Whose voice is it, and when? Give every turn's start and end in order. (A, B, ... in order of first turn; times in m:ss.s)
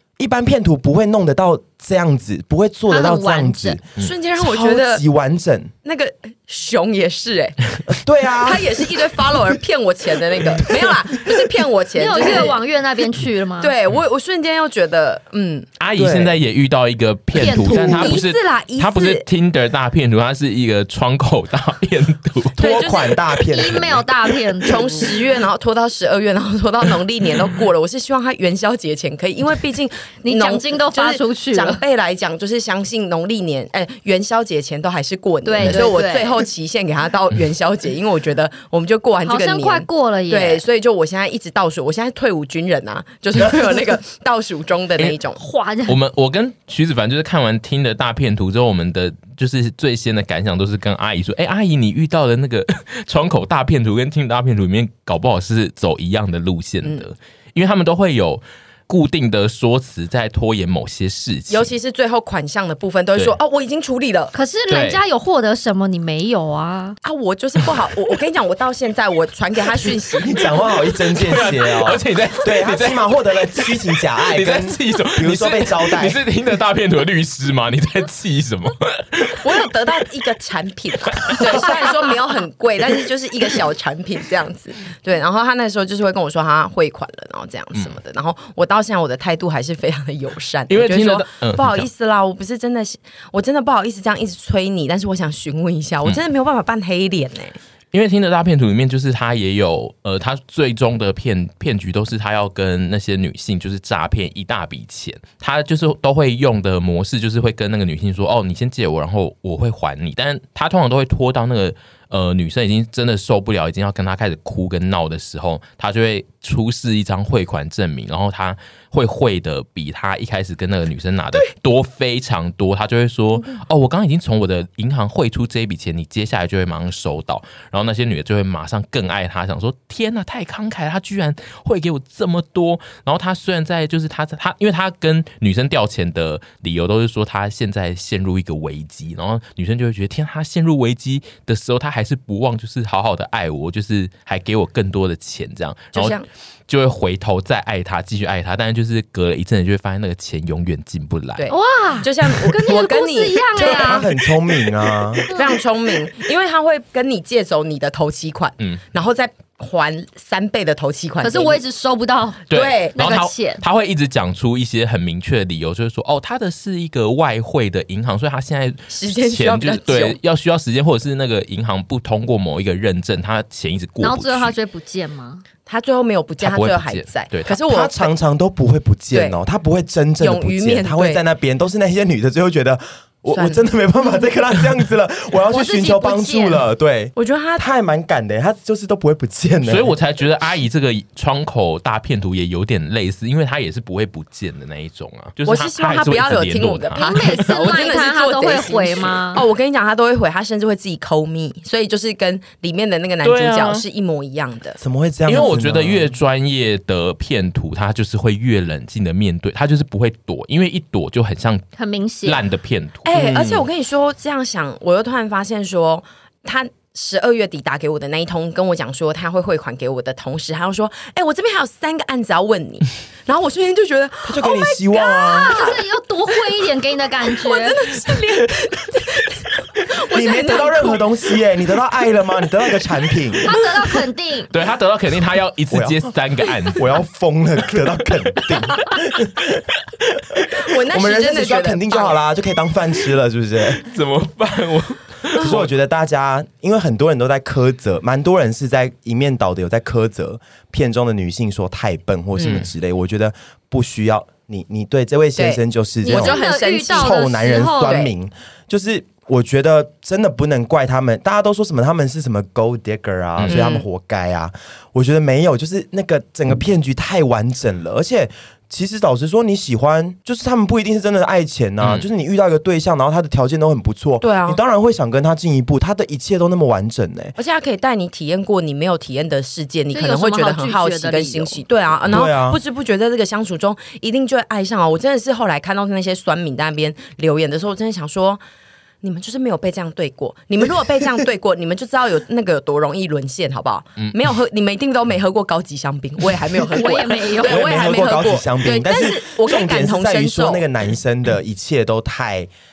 0:00.2-0:03.8 A
0:02.9-0:03.8 B
0:04.0-0:05.0 C
0:04.4-0:05.7 A
0:05.8-0:07.6 C
0:07.9-0:08.8 A
0:08.4-0:12.6 C
0:12.0-0:13.8 B
0:13.6-0:15.7 C
0:15.8-0:22.7 D
0:16.0-0:16.4 A
0:17.4-0:18.2 B
0:17.6-0:18.0 A
0:17.7-0:19.3 C
0:22.6-0:24.1 A
0:22.6-0:23.2 C
0:23.5-0:25.1 B
0:24.7-0:45.4 C
0:30.2-0:31.8 B
0:35.4-0:36.4 B
0:39.2-0:40.6 B
0:43.4-0:43.8 A
0:45.3-0:46.0 B
0:45.9-1:01.7 D
1:01.5-1:04.3 C
1:04.3-1:07.0 B
1:04.7-1:05.0 D
1:07.0-1:10.3 C
1:10.2-1:16.2 A
1:11.1-1:19.4 D
1:19.4-1:37.6 C
1:21.1-1:21.9 D
1:30.7-1:31.9 D
1:37.9-2:31.5 D
2:25.9-2:26.3 C
2:31.4-2:34.1 C
2:31.5-2:34.1 B
2:33.6-2:35.3 A
2:35.3-2:41.6 C
2:41.2-2:43.6 B
2:42.5-2:54.6 D
2:42.5-2:43.0 C
2:48.9-2:50.2 C
2:54.0-2:55.4 B
2:55.7-2:58.1 C
2:56.4-2:57.6 D
2:57.6-3:09.9 A
2:59.1-2:59.4 C
3:00.2-3:01.2 C
3:03.3-3:03.6 C
3:05.5-3:06.6 B
3:07.2-3:07.6 C
3:09.6-3:17.6 D
3:15.4-3:24.8 C
3:17.0-3:19.4 B
3:23.2-3:23.8 D
3:24.8-3:26.1 A
3:25.3-3:31.6 D
3:31.8-3:32.4 B
3:32.2-3:33.6 D
3:33.0-3:46.4 C
3:44.2-3:45.6 A
3:45.3-3:47.8 B
3:47.2-3:51.0 C
3:50.1-3:53.6 A
3:53.4-3:54.5 B
3:54.5-3:56.8 D
3:55.7-3:56.1 A
3:56.8-4:03.8 A
4:00.6-4:02.2 C
4:03.8-4:05.7 D
4:05.4-4:05.6 C
4:05.4-4:37.4 A
4:12.4-4:12.7 C
4:15.4-4:18.1 C
4:16.0-4:18.0 B
4:23.4-4:23.6 D
4:23.5-4:23.9 C
4:31.8-4:32.1 D
4:34.2-4:34.6 C
4:37.4-4:48.4 C
4:39.9-4:41.6 B
4:42.1-4:42.6 A
4:49.0-5:00.7 C
4:56.7-4:57.7 B
4:57.2-5:02.5 A